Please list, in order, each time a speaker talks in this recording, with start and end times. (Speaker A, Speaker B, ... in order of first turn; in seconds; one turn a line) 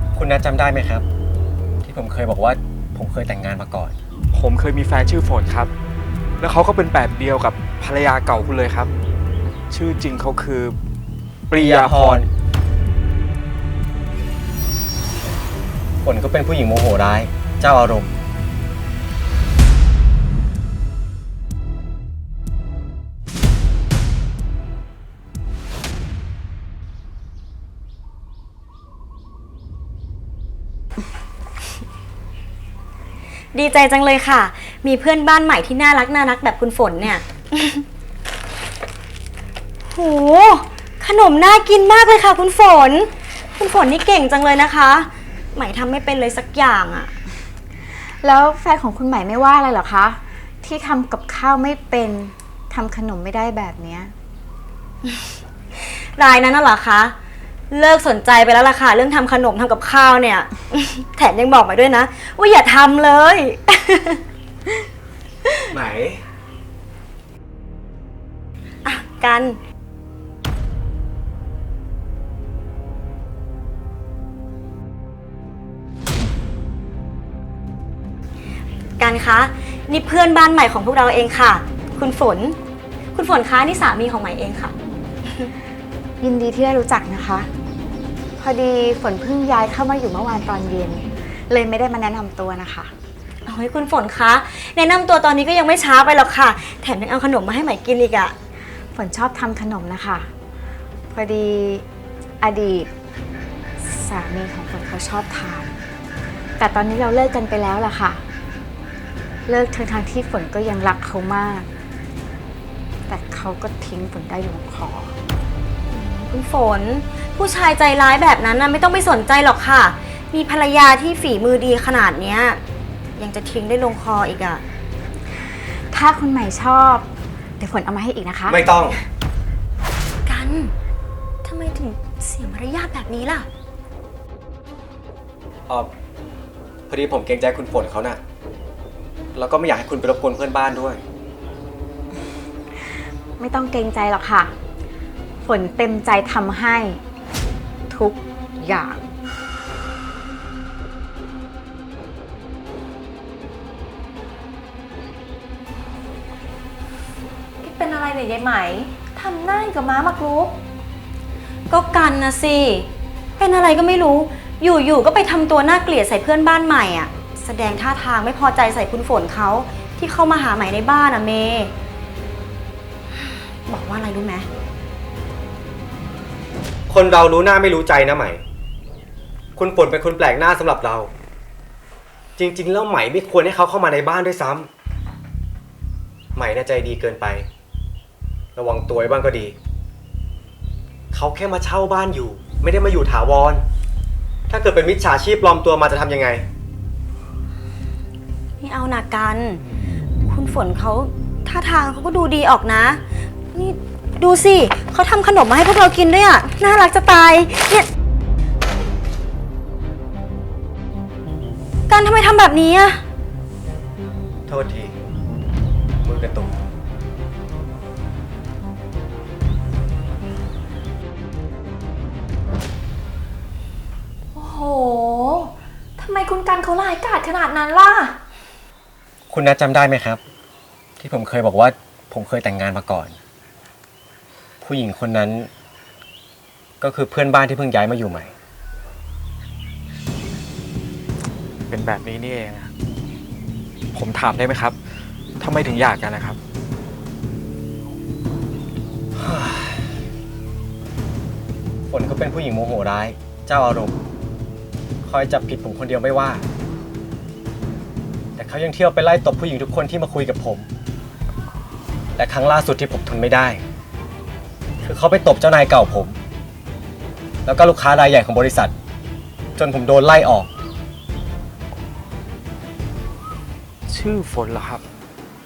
Speaker A: 0.1-1.1
Speaker A: 1.8-3.9
Speaker B: 4.3-5.7
Speaker B: 6.4-8.9
Speaker B: 9.7-10.8
Speaker B: 11.5-12.2
Speaker A: 11.6-12.3
Speaker A: 16.0-18.1
Speaker C: 33.5-37.8
Speaker C: 39.9-47.1
Speaker D: 48.2-54.1
Speaker C: 55.8-57.1
Speaker C: 57.7-64.2
Speaker A: 65.7-66.2
Speaker C: 68.8-69.6
Speaker C: 79.0-82.6
Speaker C: 83.1-84.7
Speaker D: 86.2-87.5
Speaker D: 88.4-92.9
Speaker C: 93.5-98.3
Speaker D: 98.9-100.3
Speaker D: 101.1-101.8
Speaker D: 102.4-102.9
Speaker D: 103.8-105.7
Speaker D: 106.6-108.2
Speaker D: 109.5-111.7
Speaker D: 113.1-115.1
Speaker C: 115.9-122.6
Speaker C: 123.2-124.6
Speaker D: 125.9-127.1
Speaker D: 127.6-128.9
Speaker A: 128.5-129.0
Speaker C: 130.2-130.7
Speaker C: 131.4-133.5
Speaker A: 136.9-138.2
Speaker A: 139.3-141.0
Speaker D: 143.4-144.5
Speaker D: 145.4-147.0
Speaker D: 147.9-149.1
Speaker E: 157.6-160.6
Speaker C: 161.7-171.7
Speaker C: 173.7-174.5
Speaker A: 176.9-178.4
Speaker A: 179.6-181.1
Speaker A: 182.4-184.7
Speaker A: 186.3-187.5
Speaker A: 188.5-189.6
Speaker A: 191.1-193.6
Speaker A: 194.5-196.4
Speaker C: 198.6-199.6
Speaker C: 200.2-203.0
Speaker C: 203.5-207.9
Speaker C: 211.9-213.0
Speaker A: 214.5-214.9
Speaker A: 216.0-216.6
Speaker E: 224.3-228.2
Speaker A: 229.3-230.2
Speaker A: 231.0-233.2
Speaker A: 234.6-235.5
Speaker A: 236.8-238.3
Speaker B: 241.7-242.7
Speaker B: 243.9-244.8
Speaker B: 245.4-246.4
Speaker A: 249.2-249.9
Speaker A: 251.9-253.9
Speaker A: 255.0-256.4
Speaker A: 258.4-260.7
Speaker A: 262.1-263.6
Speaker A: 264.8-266.2
Speaker A: 267.4-268.7
Speaker A: 269.6-270.5
Speaker B: 273.9-274.8